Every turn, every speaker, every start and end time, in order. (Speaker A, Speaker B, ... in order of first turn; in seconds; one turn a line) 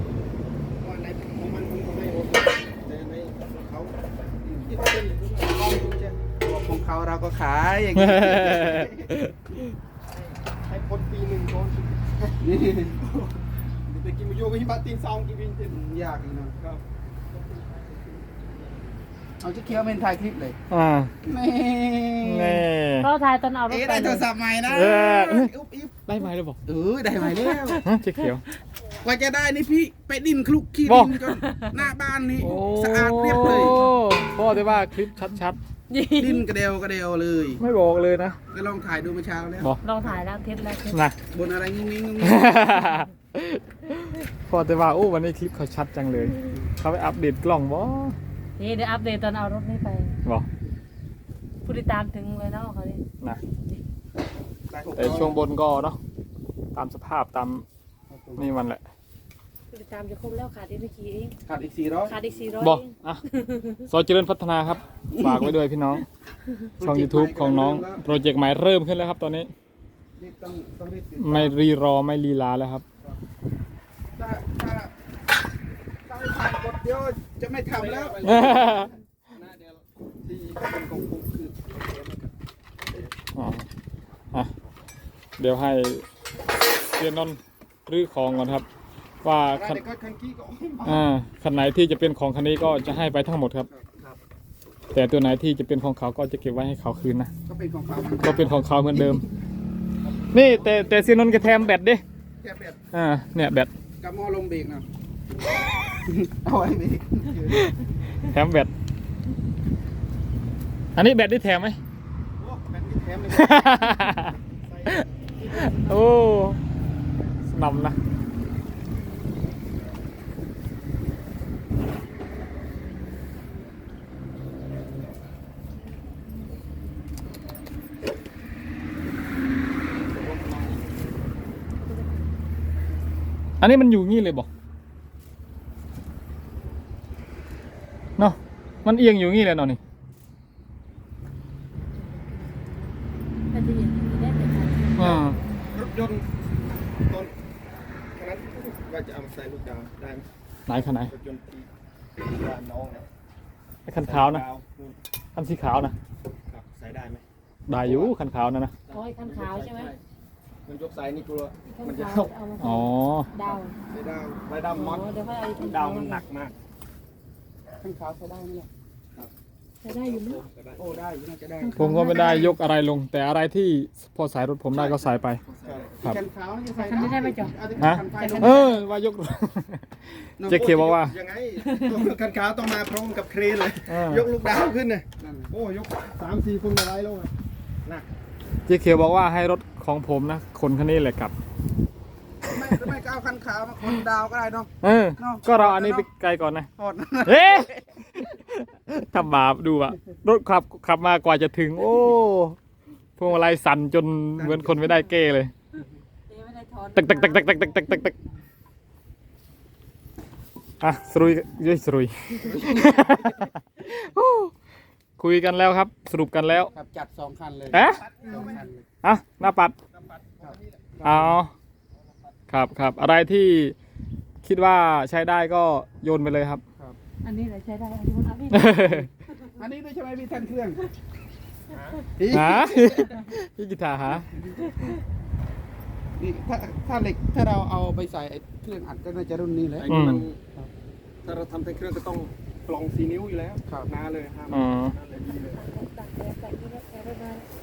Speaker A: 0.8-6.2
Speaker B: 4.5-4.7
Speaker B: 6.4-9.3
Speaker C: 8.0-9.3
Speaker A: 10.1-12.5
Speaker B: 12.4-13.4
Speaker A: 13.7-15.8
Speaker B: 15.7-16.5
Speaker A: 16.6-16.8
Speaker B: 19.4-20.6
Speaker C: 20.7-21.1
Speaker B: 21.2-22.7
Speaker C: 22.2-23.1
Speaker D: 23.0-24.3
Speaker B: 23.7-25.9
Speaker C: 24.6-25.5
Speaker C: 26.0-26.6
Speaker B: 26.6-27.8
Speaker D: 27.4-27.7
Speaker C: 27.8-28.4
Speaker B: 29.0-33.8
Speaker C: 30.9-31.4
Speaker D: 31.4-31.8
Speaker C: 32.4-35.6
Speaker D: 35.9-36.5
Speaker B: 36.1-37.6
Speaker C: 37.6-38.4
Speaker B: 38.5-40.2
Speaker D: 39.8-41.0
Speaker C: 40.9-41.2
Speaker B: 41.3-42.6
Speaker C: 42.2-48.1
Speaker D: 48.6-50.2
Speaker D: 51.6-53.0
Speaker B: 54.7-55.4
Speaker C: 54.9-56.0
Speaker C: 56.7-57.6
Speaker B: 58.1-58.5
Speaker C: 58.4-58.8
Speaker D: 59.7-61.4
Speaker B: 61.5-62.1
Speaker D: 62.1-63.8
Speaker C: 62.6-63.2
Speaker C: 63.9-66.0
Speaker B: 65.2-65.5
Speaker B: 66.8-67.8
Speaker C: 66.8-69.5
Speaker A: 67.4-68.0
Speaker B: 70.2-71.5
Speaker C: 71.2-72.8
Speaker B: 74.2-74.9
Speaker B: 76.1-78.5
Speaker A: 77.7-83.1
Speaker C: 78.2-78.9
Speaker C: 83.3-83.6
Speaker C: 85.4-86.0
Speaker C: 86.9-88.7
Speaker C: 89.2-89.8
Speaker A: 89.5-91.0
Speaker C: 90.8-93.7
Speaker C: 94.9-97.3
Speaker B: 97.5-98.5
Speaker C: 98.2-99.2
Speaker A: 100.0-101.1
Speaker C: 100.3-102.0
Speaker B: 102.4-102.8
Speaker C: 102.9-103.7
Speaker B: 104.0-104.8
Speaker B: 106.0-107.5
Speaker A: 107.3-107.6
Speaker C: 107.5-108.7
Speaker C: 110.9-111.8
Speaker A: 112.4-116.0
Speaker C: 113.3-114.3
Speaker C: 114.8-116.6
Speaker C: 117.4-118.0
Speaker A: 129.9-131.1
Speaker D: 131.8-132.2
Speaker C: 133.6-134.5
Speaker C: 138.2-139.8
Speaker D: 141.9-142.9
Speaker D: 143.5-145.6
Speaker C: 144.9-145.4
Speaker A: 145.0-146.3
Speaker A: 148.1-151.7
Speaker C: 150.7-151.1
Speaker A: 152.2-153.1
Speaker C: 153.9-154.4
Speaker A: 154.0-155.0
Speaker C: 155.4-155.9
Speaker A: 156.5-157.2
Speaker C: 157.7-158.8
Speaker A: 157.8-158.1
Speaker A: 158.9-160.0
Speaker D: 158.9-159.9
Speaker A: 160.7-162.3
Speaker D: 161.6-163.8
Speaker C: 162.6-163.3
Speaker A: 163.4-166.5
Speaker D: 164.7-166.2
Speaker B: 167.8-168.7
Speaker D: 169.8-170.4
Speaker A: 169.9-171.7
Speaker B: 170.8-172.5
Speaker D: 171.6-172.5
Speaker C: 171.8-175.4
Speaker A: 174.7-176.1
Speaker B: 176.0-178.8
Speaker D: 176.7-177.5
Speaker C: 177.8-181.2
Speaker B: 180.4-180.7
Speaker A: 180.6-187.3
Speaker D: 181.6-182.0
Speaker C: 183.9-184.3
Speaker B: 185.2-185.5
Speaker A: 187.8-188.1
Speaker C: 188.7-191.3
Speaker B: 192.4-196.0
Speaker C: 194.8-196.7
Speaker B: 196.8-198.2
Speaker C: 197.2-202.6
Speaker C: 203.2-205.5
Speaker B: 204.4-204.9
Speaker D: 206.3-207.9
Speaker C: 206.9-208.2
Speaker C: 210.8-214.5
Speaker B: 212.4-213.1
Speaker A: 212.6-213.4
Speaker C: 215.2-216.7
Speaker B: 216.7-218.8
Speaker C: 217.7-218.0
Speaker A: 217.8-218.6
Speaker D: 218.2-218.6
Speaker C: 219.0-219.8
Speaker A: 219.9-221.0
Speaker B: 220.4-221.4
Speaker C: 221.0-221.5
Speaker A: 221.9-222.3
Speaker C: 222.5-223.8
Speaker C: 224.4-226.6
Speaker D: 227.2-229.0
Speaker C: 228.5-229.1
Speaker B: 229.6-230.9
Speaker A: 231.7-232.1
Speaker B: 232.2-233.1
Speaker C: 232.3-234.2
Speaker B: 234.1-234.7
Speaker B: 236.2-239.9
Speaker A: 239.8-240.4
Speaker C: 239.9-240.3
Speaker A: 241.2-245.6
Speaker C: 244.5-244.9
Speaker D: 245.2-247.5